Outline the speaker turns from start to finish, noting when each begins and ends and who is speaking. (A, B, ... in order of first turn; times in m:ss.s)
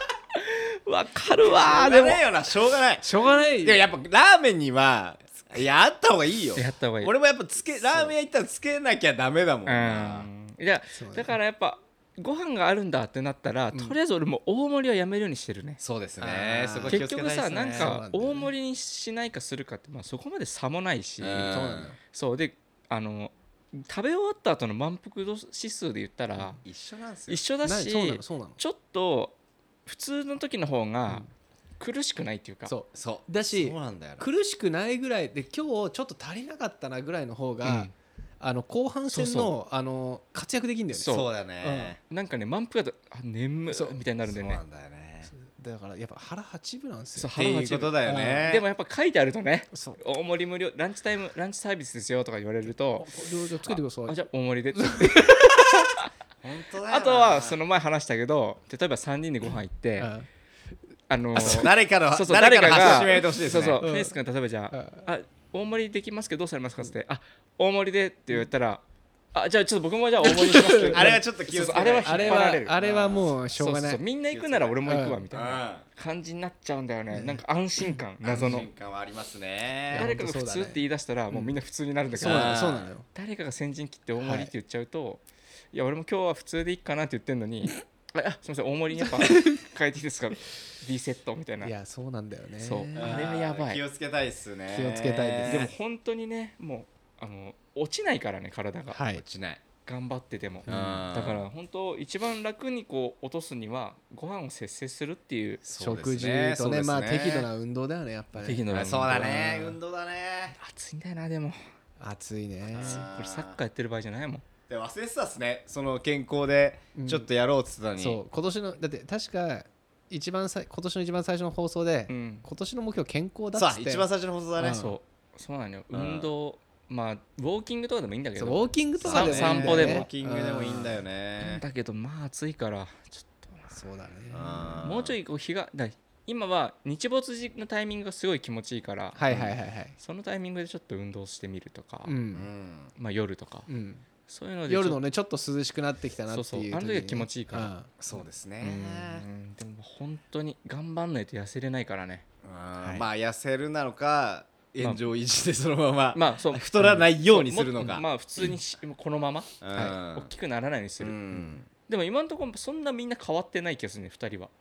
0:00.4-0:02.2 A
0:01.4-0:10.3 B
0:03.0-0:03.8 C
0:06.5-0:07.1 A
0:09.6-0:15.8 A
0:11.0-0:11.3 C
0:15.8-0:17.9 B
0:16.2-0:17.0 C
0:16.9-0:26.6 A
0:17.7-0:18.5 C
0:21.2-0:21.9 B
0:21.5-0:22.0 C
0:26.6-0:27.4 B
0:27.3-0:31.2 A
0:27.6-0:28.6 C
0:31.8-0:32.7 A
0:32.7-0:37.9 C
0:32.9-0:34.2 B
0:37.6-0:37.9 A
0:38.4-0:41.9 C
0:39.1-0:39.5 A
0:40.9-0:41.3 A
0:41.0-0:42.0 B
0:42.1-0:44.6 A
0:43.7-0:44.0 C
0:44.2-0:45.3 B
0:45.3-0:47.3 C
0:47.2-0:56.1 A
0:47.4-0:48.6 B
0:48.0-0:48.5 C
0:49.7-0:50.0 C
0:53.0-0:54.2 C
0:54.7-0:55.7 C
0:56.4-0:57.6 B
0:56.9-1:00.1 A
1:00.0-1:00.2 C
1:01.1-1:08.8 A
1:01.4-1:03.8 B
1:03.8-1:04.1 C
1:04.7-1:05.0 C
1:09.3-1:12.8 A
1:10.2-1:14.0 C
1:10.9-1:13.2 B
1:13.6-1:18.7 A
1:14.3-1:14.8 B
1:14.8-1:15.2 C
1:15.3-1:15.8 B
1:18.2-1:20.1 B
1:19.9-1:20.8 C
1:19.9-1:31.7 A
1:22.1-1:23.0 C
1:22.2-1:22.9 B
1:24.2-1:24.5 C
1:29.2-1:29.6 C
1:31.6-1:33.1 C
1:32.6-1:33.8 A
1:32.9-1:35.7 B
1:34.7-1:35.7 C
1:35.4-1:39.0 A
1:38.9-1:39.2 C
1:39.2-1:39.6 B
1:39.8-1:45.6 A
1:40.7-1:41.0 C
1:40.7-1:41.5 B
1:45.6-1:47.5 B
1:45.8-1:49.7 C
1:48.4-1:49.5 A
1:48.7-1:50.6 B
1:50.6-1:51.6 A
1:52.0-1:53.0 C
1:52.7-1:53.6 B
1:52.7-1:54.4 A
1:54.7-1:58.2 B
1:56.9-1:57.3 C
1:58.0-2:04.1 C
2:02.1-2:02.4 A
2:03.5-2:04.8 B
2:04.6-2:05.0 C
2:04.7-2:10.1 A
2:05.9-2:06.3 B
2:08.4-2:11.0 C
2:09.0-2:11.6 B
2:11.4-2:13.6 A
2:13.7-2:14.7 C
2:14.3-2:15.1 B
2:14.8-2:19.4 A
2:19.1-2:19.9 C
2:20.0-2:22.1 A
2:22.0-2:22.5 C
2:22.3-2:22.9 B
2:23.0-2:23.7 A
2:23.7-2:24.0 C
2:24.3-2:25.0 A
2:24.7-2:27.9 C
2:26.3-2:27.9 A
2:28.0-2:29.2 B
2:28.6-2:32.2 A
2:32.4-2:38.0 B
2:32.8-2:33.0 C
2:36.1-2:41.3 A
2:39.6-2:40.3 B
2:41.0-2:41.7 B
2:41.9-2:44.5 A